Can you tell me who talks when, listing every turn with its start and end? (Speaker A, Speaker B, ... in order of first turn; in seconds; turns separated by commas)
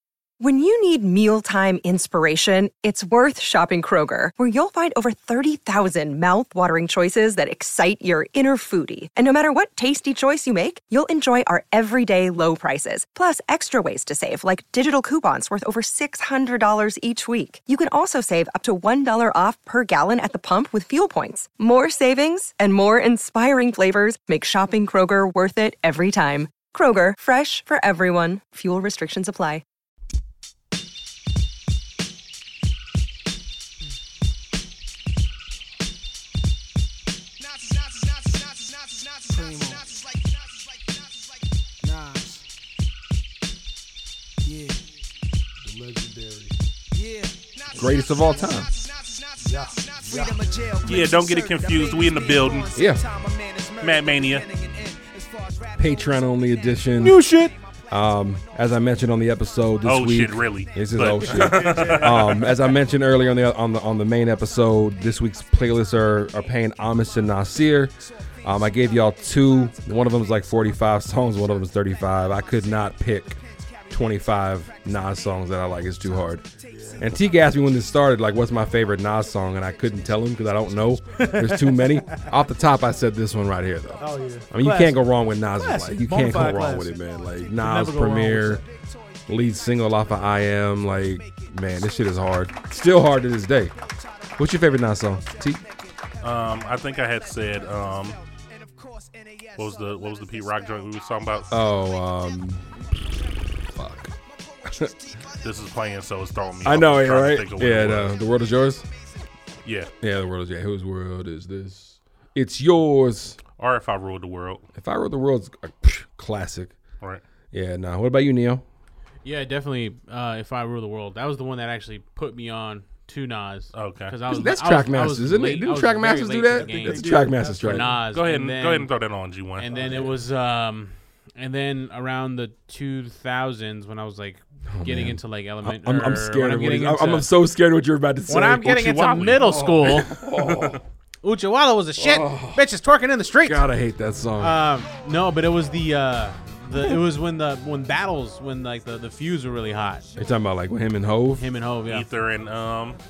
Speaker A: 0.4-29.6, Speaker B: 45.6-46.5, Speaker C: 47.7-48.7, Speaker B: 49.4-50.4, Speaker D: 49.8-51.2, Speaker E: 50.8-52.8, Speaker C: 52.7-53.0, Speaker D: 53.1-53.8, Speaker E: 53.8-54.5, Speaker D: 54.6-55.2, Speaker C: 55.8-57.2, Speaker F: 57.0-57.5, Speaker C: 57.9-73.4, Speaker E: 59.8-62.6, Speaker B: 61.4-62.5, Speaker C: 73.9-76.5, Speaker B: 76.7-77.1, Speaker C: 77.0-88.6, Speaker B: 81.2-82.2, Speaker B: 84.0-85.0, Speaker B: 85.6-86.9, Speaker B: 87.6-88.6, Speaker C: 89.3-93.7, Speaker C: 94.4-95.6, Speaker E: 96.2-98.2, Speaker E: 99.5-101.5, Speaker C: 101.5-102.7, Speaker C: 103.7-104.1, Speaker E: 105.4-108.2, Speaker C: 106.6-108.9, Speaker E: 109.6-109.9, Speaker C: 110.0-113.4, Speaker E: 113.6-114.6, Speaker C: 114.8-116.8, Speaker C: 117.5-118.6, Speaker F: 119.2-128.9, Speaker E: 123.7-124.2, Speaker C: 124.3-127.9, Speaker B: 126.5-128.0, Speaker E: 128.1-129.7, Speaker F: 129.6-137.3, Speaker B: 129.7-130.1, Speaker C: 134.7-140.8, Speaker F: 138.3-140.2, Speaker E: 138.9-140.8, Speaker F: 141.2-143.7, Speaker C: 142.0-142.6, Speaker C: 143.4-144.6, Speaker F: 144.4-150.0, Speaker C: 150.2-151.4, Speaker F: 151.3-152.1, Speaker E: 151.9-153.0